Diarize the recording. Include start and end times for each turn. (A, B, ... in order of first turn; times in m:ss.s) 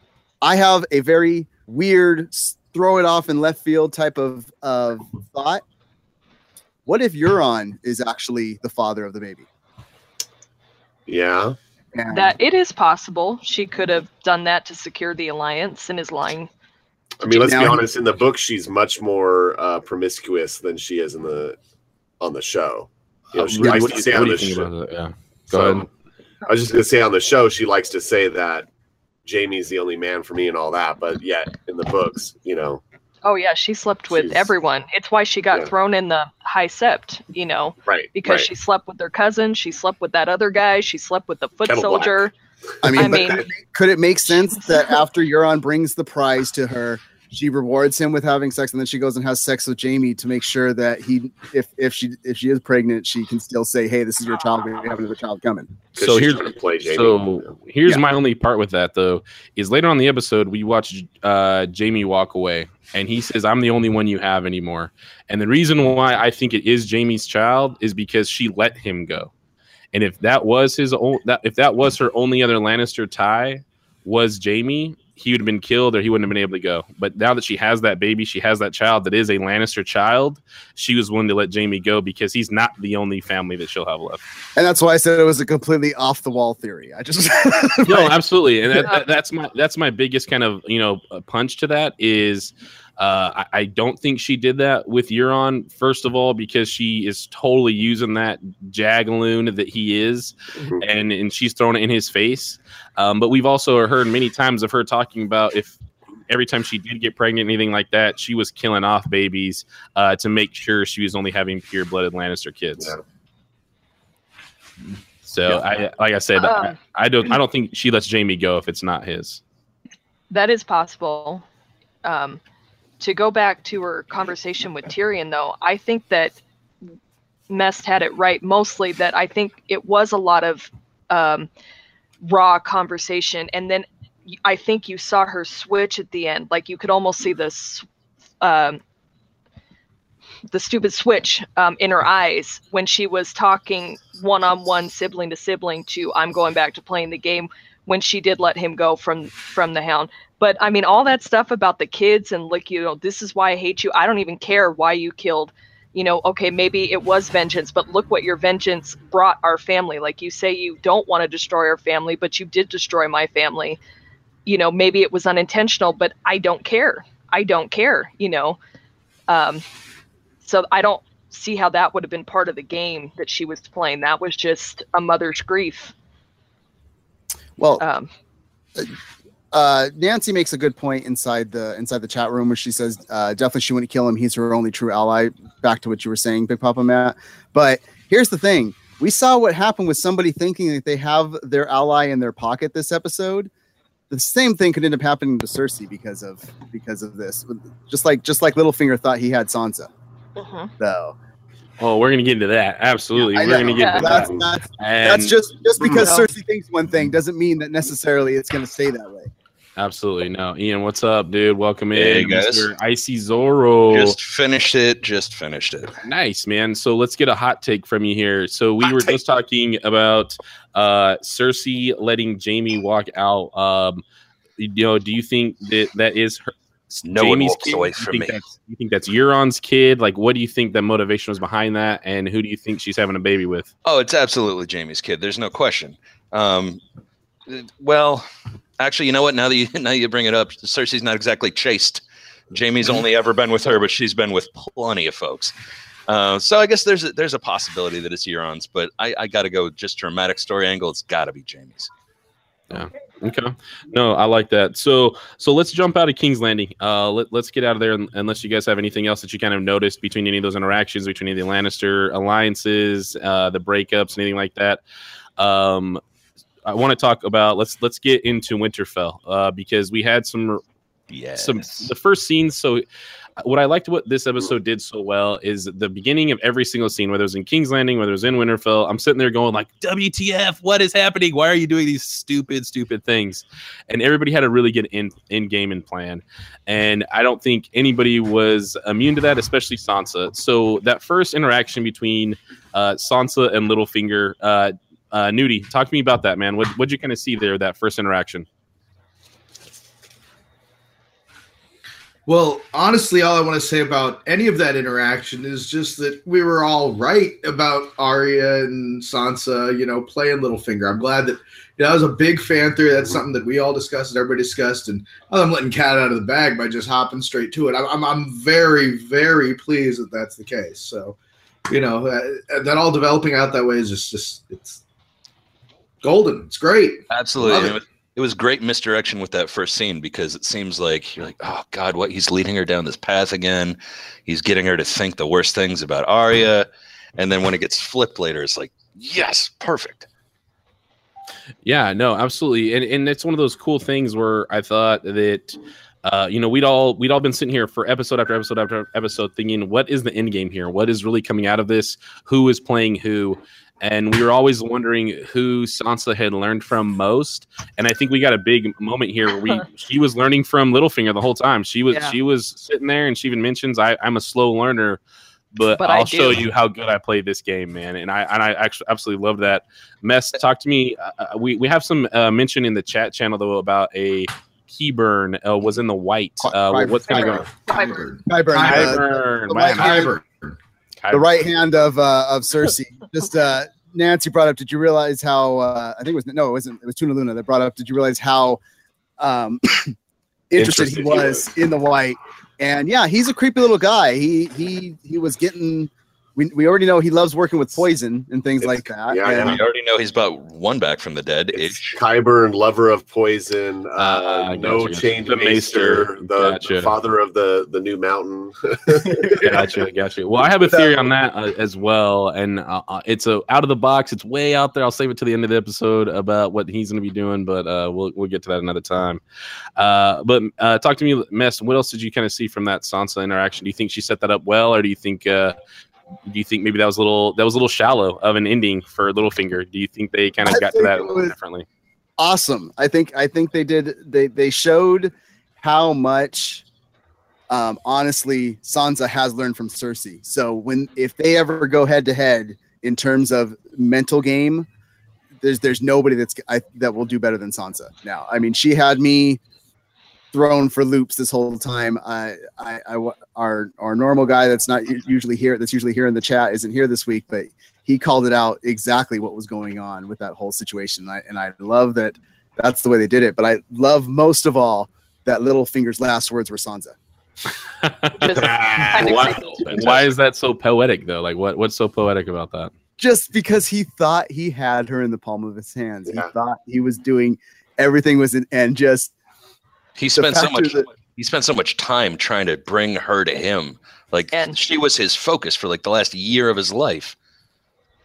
0:00.4-0:05.6 A
0:06.9-0:09.5 A
0:11.1-0:11.6 B
0:11.9-0:12.3 A
0:12.1-0:16.5 C
0:17.2-0:21.6 B
0:17.2-0:17.8 A
0:22.2-0:24.7 B
0:23.4-0:25.9 D
0:25.5-0:25.9 B
0:26.4-0:28.7 B
0:29.2-0:32.8 B
0:33.2-0:42.3 C
0:34.1-0:34.5 B
0:37.9-0:38.5 B
0:41.7-0:42.3 B
0:42.8-0:55.7 A
0:43.0-0:43.4 B
0:43.0-0:43.4 C
0:44.5-0:44.8 C
0:56.0-0:57.5 B
0:56.0-1:09.3 D
1:09.9-1:24.2 D
1:24.6-1:28.2 A
1:27.8-1:45.8 D
1:40.6-1:40.8 B
1:46.3-1:53.0 D
1:55.3-1:59.4 D
1:56.4-1:56.7 C
2:00.3-2:01.4 C
2:02.0-2:02.4 C
2:03.0-2:06.4 C
2:07.5-2:11.5 C
2:12.2-2:17.8 C
2:18.4-2:18.8 C
2:20.5-2:43.8 C
2:44.5-2:48.6 C
2:49.3-2:49.6 C
2:50.4-2:55.9 C
2:57.6-2:57.8 A
2:57.8-2:58.1 C
2:59.5-3:13.5 A
3:14.1-3:19.9 A
3:20.4-3:20.7 C
3:20.8-3:21.2 A
3:21.8-3:25.4 D
3:23.2-3:29.3 A
3:23.8-3:24.2 C
3:26.0-3:26.3 C
3:29.8-3:34.2 D
3:32.0-3:32.7 E
3:33.9-3:36.0 E
3:36.0-3:44.0 D
3:44.6-3:53.7 D
3:47.0-3:48.4 E
3:53.8-3:56.8 E
3:57.5-3:58.3 E
3:58.8-4:05.5 E
4:06.1-4:11.9 E
4:12.7-4:24.8 D
4:25.4-4:26.0 D
4:26.7-4:30.6 D
4:31.1-4:31.9 E
4:31.4-4:32.8 D
4:33.4-4:58.5 D
5:02.3-5:21.2 F
5:21.7-5:24.8 F
5:26.0-5:27.8 F
5:27.1-5:40.1 E
5:41.6-6:05.0 D
6:01.9-6:02.2 C
6:05.5-6:17.5 D
6:05.8-6:06.4 C
6:16.4-6:17.5 A
6:17.1-6:18.1 C
6:17.6-6:19.1 F
6:18.3-6:20.1 A
6:18.6-6:20.1 D
6:19.7-6:20.6 F
6:21.0-6:21.3 D
6:21.1-6:28.6 A
6:29.2-6:30.0 A
6:30.5-6:39.6 A
6:30.6-6:31.5 B
6:38.6-6:39.6 B
6:39.4-6:42.0 E
6:41.6-6:49.7 B
6:44.0-6:46.9 D
6:49.4-6:59.2 D
6:59.8-7:05.6 D
7:06.3-7:11.7 D
7:10.4-7:11.3 A
7:12.2-7:16.6 A
7:17.5-7:24.7 A
7:25.4-7:29.4 A
7:30.3-7:47.0 A
7:47.8-7:52.7 D
7:48.2-7:50.0 C
7:48.3-7:49.3 B
7:48.7-7:50.0 E
7:53.0-7:59.1 A
8:00.0-8:07.2 E
8:00.2-8:00.9 A
8:04.3-8:04.7 C